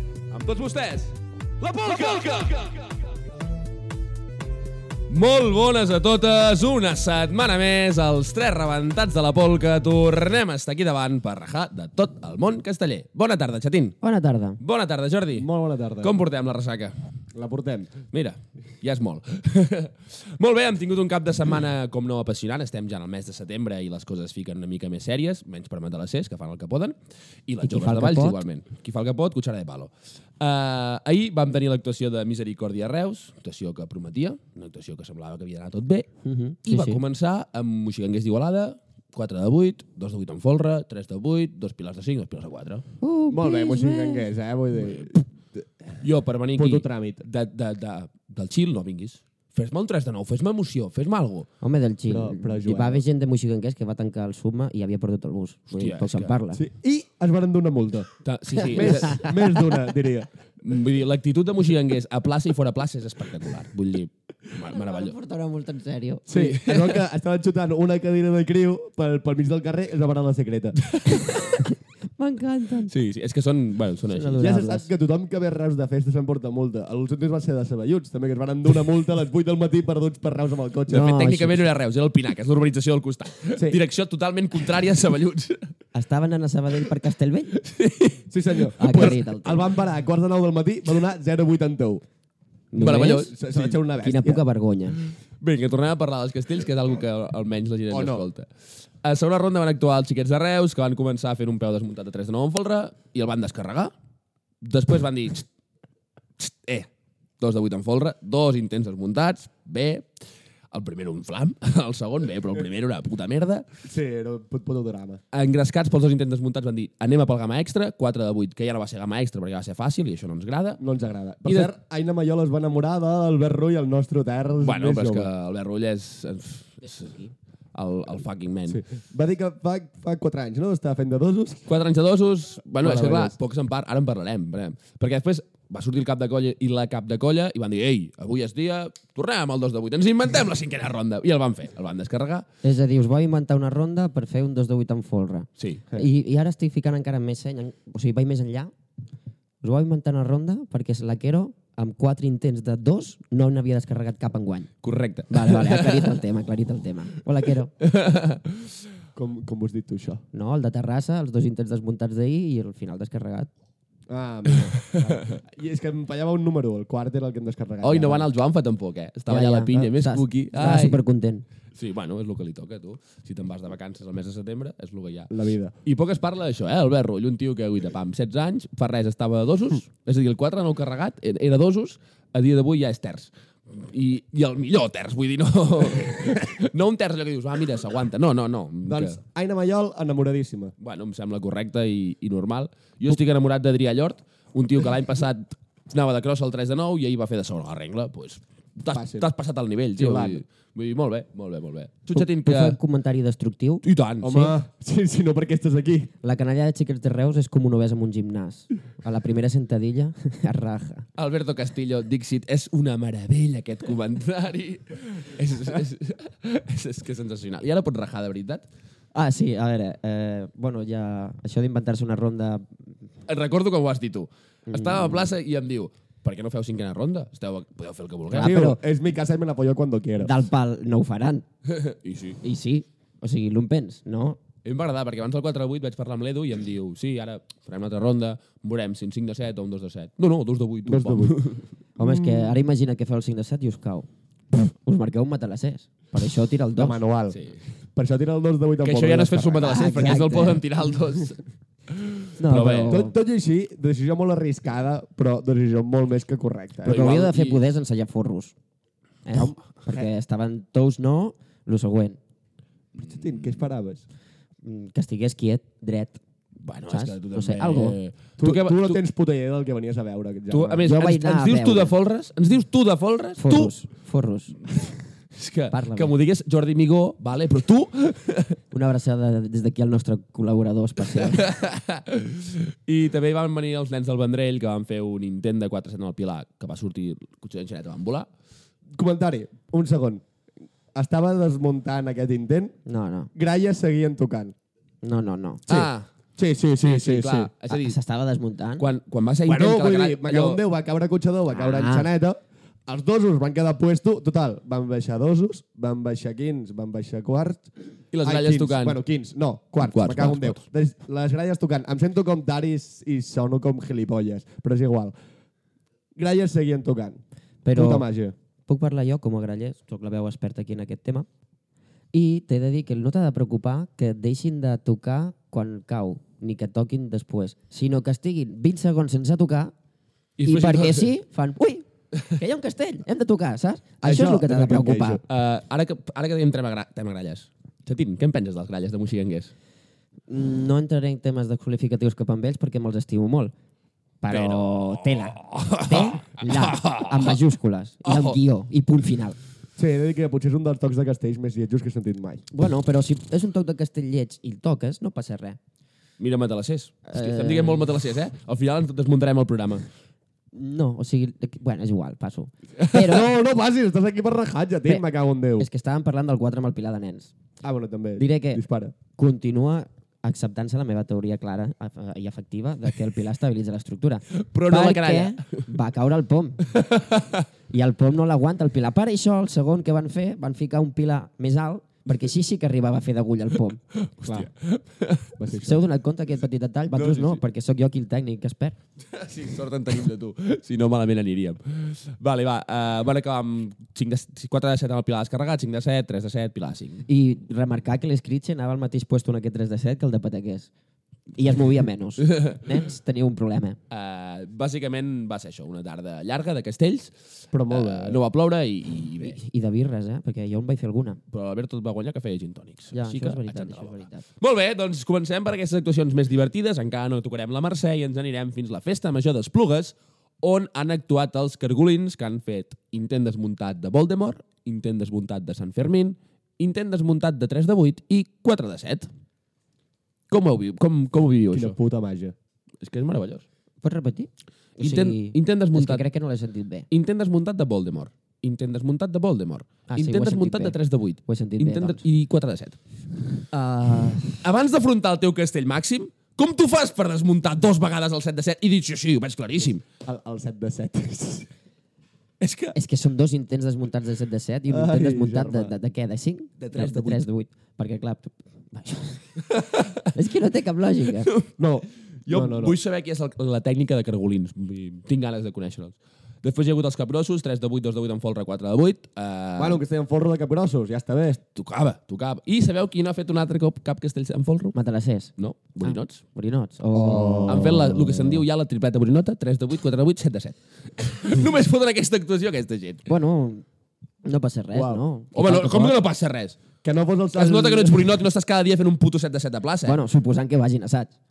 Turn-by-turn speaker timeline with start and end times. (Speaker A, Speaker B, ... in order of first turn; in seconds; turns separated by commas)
Speaker A: 0.3-2.8, Speaker A: 5.1-14.0, Speaker B: 14.0-14.6, Speaker A: 14.6-15.5, Speaker C: 15.3-16.2, Speaker A: 16.0-16.9, Speaker C: 17.3-18.1, Speaker A: 18.1-36.1, Speaker B: 27.6-28.4, Speaker B: 36.2-37.0, Speaker A: 36.7-42.8, Speaker B: 43.0-44.3, Speaker C: 43.3-45.6, Speaker A: 46.0-51.5, Speaker C: 46.6-47.2, Speaker B: 51.6-56.6, Speaker C: 52.1-53.0, Speaker A: 55.8-56.4, Speaker C: 56.5-58.1, Speaker A: 58.2-59.3, Speaker B: 58.6-59.4, Speaker C: 58.7-60.3, Speaker A: 60.6-65.2, Speaker B: 64.7-66.2, Speaker C: 66.3-70.8, Speaker A: 66.3-67.0, Speaker A: 70.9-71.7, Speaker B: 71.1-72.9, Speaker A: 72.9-74.5, Speaker B: 74.1-74.9, Speaker C: 74.4-81.2, Speaker B: 80.9-81.6, Speaker A: 80.9-85.7, Speaker C: 83.6-83.8, Speaker B: 85.9-87.6, Speaker A: 87.6-89.1, Speaker C: 88.3-92.0, Speaker B: 88.8-89.7, Speaker B: 92.7-93.3, Speaker A: 92.8-93.7, Speaker C: 93.1-94.4, Speaker B: 94.0-95.0, Speaker A: 95.4-98.5, Speaker C: 97.9-98.2, Speaker A: 99.0-103.9, Speaker A: 104.6-105.5, Speaker A: 106.4-106.9, Speaker A: 107.4-110.1, Speaker A: 110.7-113.7, Speaker C: 113.8-115.2, Speaker A: 115.3-120.8, Speaker C: 120.8-125.3, Speaker A: 121.5-121.7, Speaker A: 124.6-128.8, Speaker C: 128.7-131.7, Speaker A: 131.7-142.5, Speaker C: 132.8-133.4, Speaker B: 142.6-148.7, Speaker A: 145.6-145.8, Speaker B: 149.6-154.7, Speaker A: 154.8-156.2, Speaker B: 155.3-157.7, Speaker A: 157.8-158.7, Speaker C: 159.2-160.2, Speaker B: 160.3-163.5, Speaker C: 164.1-168.3, Speaker A: 164.8-165.3, Speaker A: 167.8-171.0, Speaker B: 169.3-171.4, Speaker A: 171.8-175.3, Speaker C: 175.3-175.7, Speaker A: 175.8-189.2, Speaker C: 188.9-190.7, Speaker A: 190.8-202.8, Speaker C: 198.9-199.3, Speaker C: 200.0-200.4, Speaker B: 202.1-203.8, Speaker A: 203.8-204.6, Speaker C: 204.2-206.1, Speaker B: 206.2-211.1, Speaker A: 211.2-218.7, Speaker B: 219.1-222.7, Speaker A: 223.3-228.6, Speaker B: 224.7-225.3, Speaker B: 228.3-228.8, Speaker C: 228.4-230.3, Speaker B: 230.2-231.4, Speaker A: 231.7-232.4, Speaker B: 232.4-234.4, Speaker A: 234.6-241.7, Speaker C: 240.8-241.4, Speaker B: 242.0-244.1, Speaker C: 242.0-242.5, Speaker B: 244.7-247.0, Speaker C: 246.8-247.4, Speaker C: 247.9-250.4, Speaker A: 248.8-251.4, Speaker B: 249.6-250.6, Speaker A: 252.0-253.0, Speaker B: 252.4-253.1, Speaker C: 252.9-257.1, Speaker A: 256.8-257.6, Speaker B: 256.9-258.6, Speaker B: 259.2-262.2, Speaker C: 259.4-260.1, Speaker C: 263.0-264.1, Speaker B: 264.6-266.2, Speaker A: 266.6-269.0, Speaker B: 266.9-268.0, Speaker C: 268.4-270.9, Speaker A: 270.5-273.7, Speaker B: 270.9-271.9, Speaker B: 273.4-274.6, Speaker A: 275.3-278.6, Speaker B: 275.7-276.1, Speaker B: 278.7-281.5, Speaker A: 281.1-288.3, Speaker C: 289.0-290.2, Speaker C: 290.9-292.8, Speaker B: 292.9-293.3, Speaker C: 293.4-294.6, Speaker B: 295.0-295.8, Speaker A: 295.7-296.1, Speaker C: 296.4-297.5, Speaker A: 296.8-298.0, Speaker B: 297.7-298.9, Speaker A: 298.8-300.6, Speaker C: 299.5-307.7, Speaker B: 301.5-302.1, Speaker A: 308.1-309.0, Speaker C: 308.2-315.1, Speaker A: 309.8-310.6, Speaker C: 316.2-317.2, Speaker B: 317.6-318.1, Speaker C: 317.7-318.4, Speaker B: 318.7-321.3, Speaker B: 322.1-329.7, Speaker A: 330.4-331.1, Speaker B: 330.4-335.2, Speaker C: 334.0-335.2, Speaker A: 335.3-339.5, Speaker B: 340.3-343.5, Speaker B: 344.2-349.4, Speaker A: 344.3-347.4, Speaker A: 348.1-348.4, Speaker C: 349.8-352.4, Speaker B: 352.5-355.6, Speaker A: 356.2-359.9, Speaker B: 357.1-357.9, Speaker B: 360.5-363.3, Speaker C: 362.9-365.7, Speaker B: 365.6-367.3, Speaker C: 367.6-368.9, Speaker B: 368.2-368.6, Speaker B: 369.1-376.7, Speaker A: 374.4-375.6, Speaker A: 376.9-377.4, Speaker B: 377.7-383.8, Speaker A: 384.1-385.4, Speaker C: 385.4-385.8, Speaker B: 385.5-388.8, Speaker A: 386.9-387.4, Speaker A: 389.1-397.1, Speaker B: 397.1-400.7, Speaker B: 401.4-403.8, Speaker A: 403.9-407.1, Speaker C: 407.5-408.2, Speaker A: 407.7-409.4, Speaker B: 409.2-411.2, Speaker A: 411.3-429.1, Speaker B: 412.9-414.2, Speaker A: 430.3-431.8, Speaker C: 431.5-432.4, Speaker A: 432.8-433.4, Speaker B: 433.8-436.9, Speaker A: 434.8-436.0, Speaker A: 436.9-442.8, Speaker B: 439.9-440.8, Speaker B: 441.3-442.0, Speaker B: 443.5-444.4, Speaker A: 444.3-449.8, Speaker C: 450.0-451.5, Speaker A: 452.4-452.8, Speaker B: 452.7-459.2, Speaker C: 454.7-455.7, Speaker A: 456.6-457.2, Speaker A: 459.5-460.1, Speaker B: 460.1-461.3, Speaker C: 461.6-462.8, Speaker A: 462.3-469.8, Speaker C: 469.6-471.4, Speaker A: 471.6-474.8, Speaker B: 474.7-478.0, Speaker A: 475.4-476.2, Speaker C: 476.9-478.2, Speaker A: 477.5-483.1, Speaker B: 483.1-483.6, Speaker B: 484.2-486.0, Speaker C: 484.7-485.0, Speaker A: 485.4-486.6, Speaker C: 486.8-488.1, Speaker A: 487.4-490.0, Speaker B: 489.9-491.1